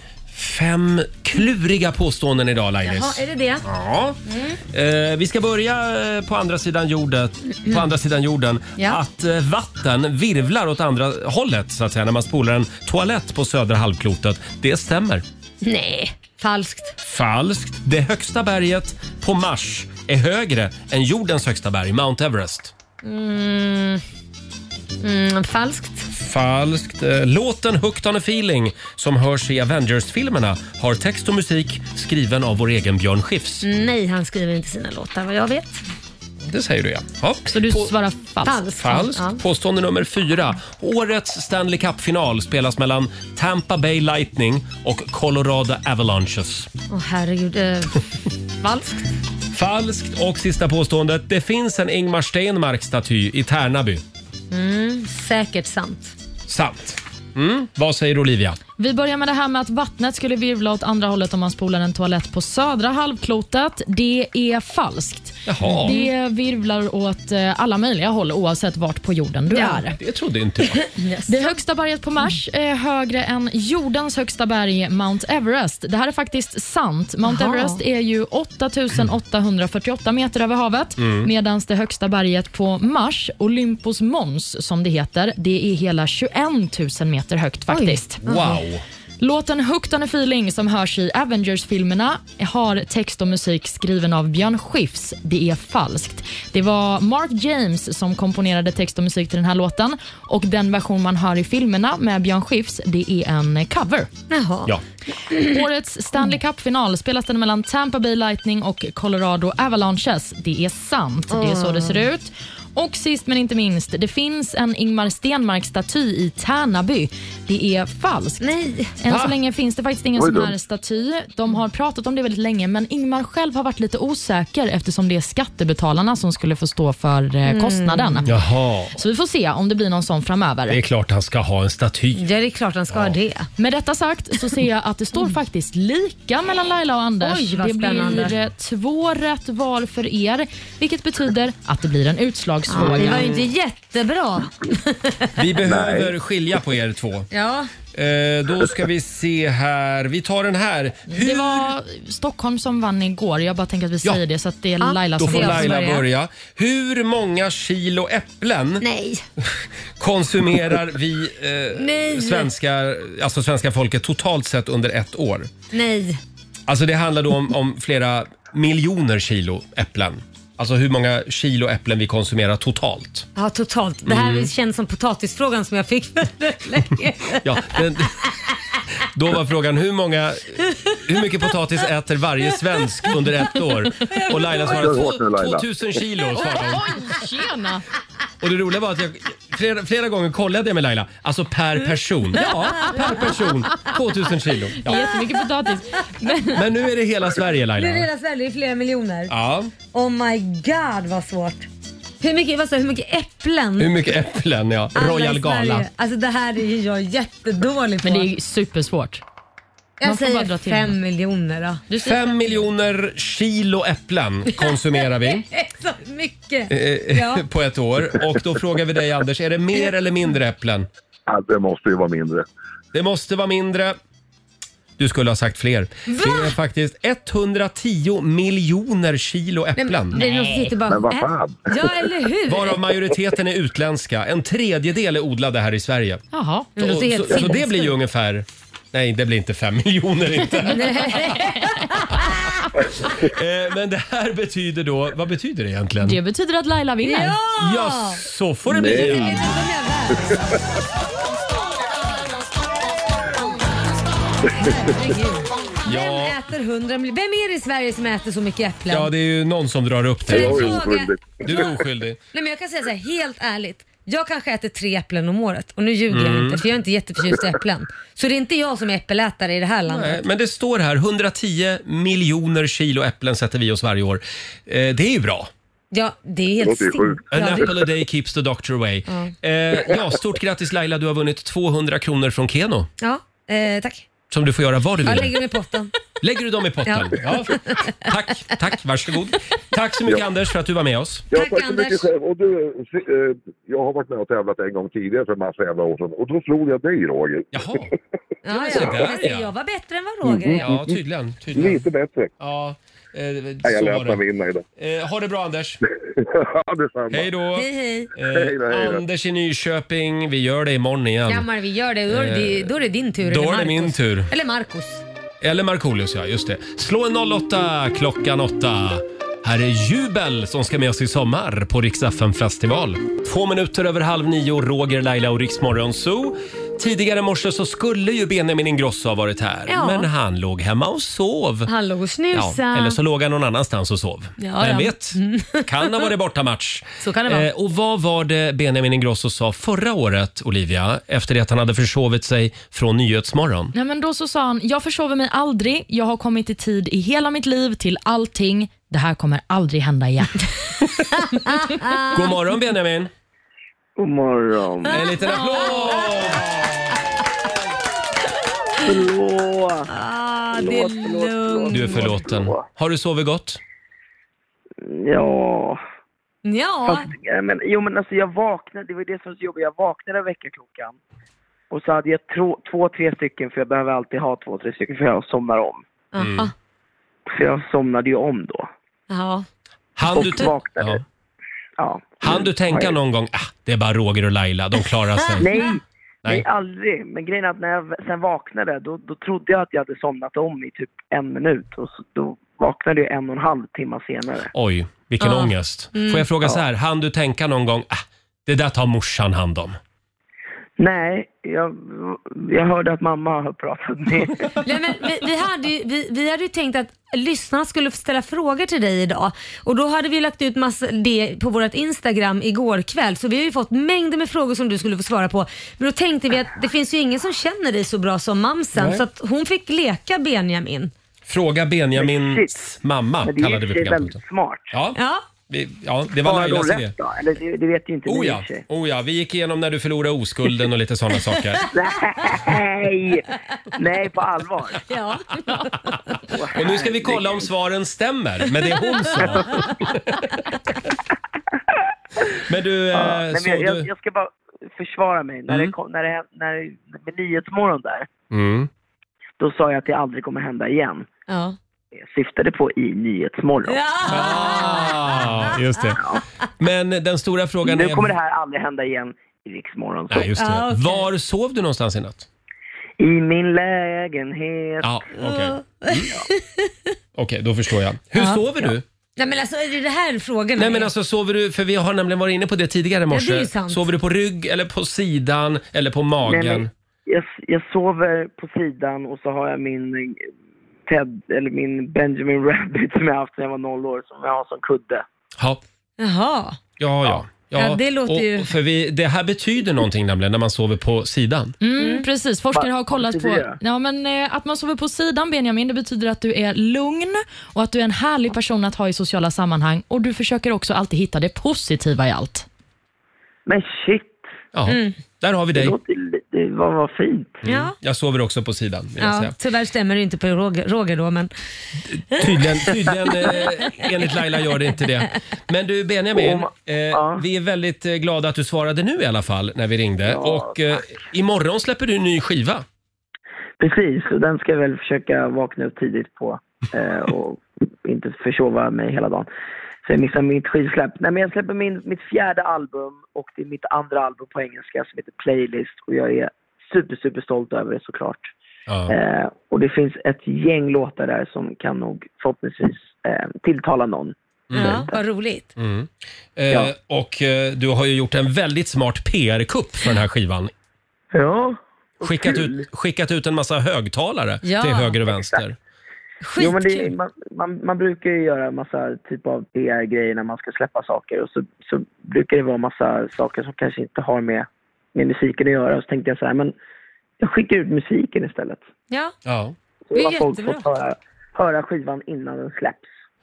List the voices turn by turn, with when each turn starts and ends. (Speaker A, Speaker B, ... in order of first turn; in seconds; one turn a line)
Speaker A: 0.3-4.2
Speaker B: 2.8-3.7
Speaker B: 4.3-4.6
Speaker A: 4.7-15.2
Speaker B: 15.6-17.0
Speaker A: 17.0-22.7
Speaker B: 23.0-24.0
Speaker B: 25.0-26.1
Speaker A: 26.1-33.7
Speaker B: 33.6-35.8
Speaker A: 36.4-37.9
Speaker C: 37.5-38.6
Speaker B: 38.5-39.4
Speaker A: 38.8-46.7
Speaker B: 46.9-48.0
Speaker B: 48.6-49.1
Speaker A: 49.5-54.0
Speaker B: 54.5-56.1
Speaker A: 56.5-58.6
Speaker C: 58.8-70.0
Speaker A: 65.5-65.9
Speaker B: 65.8-66.1
Speaker B: 69.5-69.8
Speaker A: 70.0-70.8
Speaker B: 70.8-71.5
Speaker C: 71.3-88.3
Speaker B: 77.2-77.8
Speaker A: 81.0-81.3
Speaker B: 87.7-88.4
Speaker A: 88.2-88.8
Speaker C: 89.2-104.1
Speaker B: 104.3-104.7
Speaker C: 105.4-118.4
Speaker B: 111.3-112.0
Speaker B: 118.4-118.9
Speaker C: 119.0-128.3
Speaker A: 119.1-119.3
Speaker D: 120.2-120.5
Speaker B: 127.5-128.3
Speaker A: 128.3-129.0
Speaker C: 129.0-130.8
Speaker A: 130.7-132.2
Speaker B: 132.2-133.5
Speaker A: 132.9-133.2
Speaker C: 133.6-143.3
Speaker B: 137.2-138.3
Speaker B: 142.7-145.3
Speaker A: 142.8-143.4
Speaker A: 145.4-147.3
Speaker D: 145.7-146.1
Speaker B: 147.3-147.7
Speaker A: 147.9-151.7
Speaker C: 151.1-155.9
Speaker B: 154.8-156.0
Speaker A: 155.2-158.8
Speaker B: 158.8-159.2
Speaker A: 160.0-165.5
Speaker B: 161.8-162.5
Speaker B: 165.7-166.2
Speaker A: 166.7-173.3
Speaker B: 173.4-177.4
Speaker A: 174.1-174.5
Speaker A: 177.4-178.2
Speaker A: 179.1-186.9
Speaker B: 184.1-184.7
Speaker D: 184.7-185.6
Speaker C: 186.4-187.8
Speaker A: 188.4-195.0
Speaker B: 192.5-193.9
Speaker C: 194.8-196.7
Speaker B: 194.9-195.2
Speaker A: 196.6-198.1
Speaker B: 197.7-199.3
Speaker A: 199.3-199.7
Speaker B: 199.9-201.7
Speaker B: 202.2-204.0
Speaker A: 203.8-205.9
Speaker B: 205.0-208.3
Speaker C: 208.0-209.2
Speaker B: 210.0-211.8
Speaker C: 210.0-211.0
Speaker C: 211.9-212.6
Speaker A: 212.0-215.4
Speaker B: 214.6-217.4
Speaker A: 216.7-220.9
Speaker D: 221.3-222.4
Speaker A: 222.9-224.0
Speaker A: 225.0-230.2
Speaker B: 226.1-226.5
Speaker B: 229.8-232.8
Speaker D: 230.9-231.9
Speaker A: 232.5-236.2
Speaker C: 236.3-236.7
Speaker B: 236.8-237.9
Speaker A: 236.8-241.2
Speaker B: 240.7-242.9
Speaker A: 243.1-246.2
Speaker C: 246.0-247.4
Speaker B: 247.0-248.2
Speaker A: 247.6-249.6
Speaker D: 248.7-249.5
Speaker B: 248.8-250.6
Speaker B: 254.5-259.1
Speaker A: 255.8-256.4
Speaker A: 258.9-260.9
Speaker B: 260.3-261.2
Speaker D: 260.3-261.7
Speaker A: 261.4-262.2
Speaker B: 262.3-270.2
Speaker A: 266.1-266.6
Speaker A: 269.9-275.5
Speaker B: 275.9-277.7
Speaker D: 276.6-277.2
Speaker A: 277.3-282.9
Speaker B: 279.1-279.3
Speaker B: 283.0-284.1
Speaker A: 284.3-285.3
Speaker B: 285.0-285.9
Speaker A: 286.2-291.3
Speaker B: 286.9-287.9
Speaker D: 291.3-297.5
Speaker B: 291.3-292.1
Speaker A: 297.5-297.9
Speaker B: 298.4-300.7
Speaker A: 298.5-299.5
Speaker D: 300.2-301.0
Speaker A: 300.6-301.9
Speaker D: 301.6-302.3
Speaker A: 302.4-304.2
Speaker D: 303.7-304.6
Speaker A: 304.8-305.8
Speaker D: 306.2-307.3
Speaker A: 307.1-311.5
Speaker B: 307.6-308.1
Speaker D: 308.2-309.0
Speaker B: 311.3-315.0
Speaker A: 312.1-314.3
Speaker A: 315.4-331.7
Speaker B: 329.7-330.1
Speaker B: 331.7-333.0
Speaker A: 332.3-343.7
Speaker B: 334.4-336.1
Speaker B: 337.0-337.5
Speaker C: 343.7-350.5
Speaker B: 351.3-352.2
Speaker A: 352.1-353.1
Speaker E: 354.0-355.1
Speaker B: 354.9-356.2
Speaker A: 354.9-357.0
Speaker E: 358.8-359.9
Speaker B: 359.9-362.2
Speaker E: 360.5-362.6
Speaker A: 361.7-363.6
Speaker E: 364.8-365.8
Speaker B: 366.4-367.1
Speaker E: 366.9-371.0
Speaker E: 371.7-375.8
Speaker B: 376.1-376.5
Speaker A: 376.2-376.5
Speaker E: 377.3-378.7
Speaker B: 379.1-379.5
Speaker A: 380.0-381.0
Speaker E: 380.1-381.0
Speaker B: 380.1-380.5
Speaker E: 381.8-382.9
Speaker A: 382.2-385.5
Speaker B: 385.2-385.7
Speaker E: 385.4-394.5
Speaker A: 394.5-399.8
Speaker B: 395.2-396.3
Speaker E: 400.8-404.5
Speaker B: 404.6-420.9
Speaker A: 418.8-419.0
Speaker A: 421.3-424.2
Speaker E: 422.0-422.7
Speaker E: 423.2-424.7
Speaker A: 424.7-425.0
Speaker B: 424.9-425.3
Speaker A: 425.5-426.9
Speaker E: 426.2-428.6
Speaker A: 428.1-431.6
Speaker E: 431.7-434.8
Speaker B: 434.9-436.1
Speaker E: 436.3-437.5
Speaker A: 436.6-440.0
Speaker B: 438.7-439.8
Speaker A: 442.4-443.9
Speaker E: 442.9-448.1
Speaker A: 445.5-445.7
Speaker A: 448.3-448.7
Speaker E: 449.4-451.1
Speaker B: 451.3-451.6
Speaker E: 452.0-453.8
Speaker B: 453.6-455.6
Speaker A: 454.1-456.0
Speaker A: 456.6-458.1
Speaker E: 457.6-460.3
Speaker A: 460.1-462.3
Speaker B: 460.3-461.1
Speaker E: 463.0-465.0
Speaker A: 464.8-466.1
Speaker B: 465.1-466.9
Speaker A: 467.1-468.8
Speaker B: 468.1-468.5
Speaker B: 469.2-470.9
Speaker A: 470.6-476.7
Speaker B: 473.1-473.8
Speaker E: 476.2-480.3
Speaker E: 480.9-485.0
Speaker B: 486.0-486.6
Speaker A: 486.8-491.5
Speaker B: 487.5-488.5
Speaker C: 491.6-502.5
Speaker B: 491.8-492.1
Speaker E: 492.5-493.6
Speaker E: 503.5-504.2
Speaker A: 504.5-505.8
Speaker B: 504.7-505.0
Speaker E: 505.5-507.4
Speaker B: 507.4-507.8
Speaker A: 507.4-509.4
Speaker B: 509.0-511.3
Speaker A: 511.9-522.6
Speaker B: 512.1-513.9
Speaker E: 516.1-517.2
Speaker E: 520.0-520.6
Speaker E: 523.6-529.3
Speaker E: 529.9-538.3
Speaker A: 538.7-538.9
Speaker E: 538.9-545.0
Speaker A: 544.5-544.9
Speaker B: 544.5-545.5
Speaker A: 545.6-550.5
Speaker E: 551.1-552.7
Speaker A: 552.0-555.6
Speaker B: 554.4-555.0
Speaker E: 555.1-555.4
Speaker B: 556.2-557.0
Speaker E: 556.4-566.5
Speaker E: 567.2-568.6
Speaker A: 569.2-569.5
Speaker E: 569.9-572.9
Speaker B: 570.0-570.7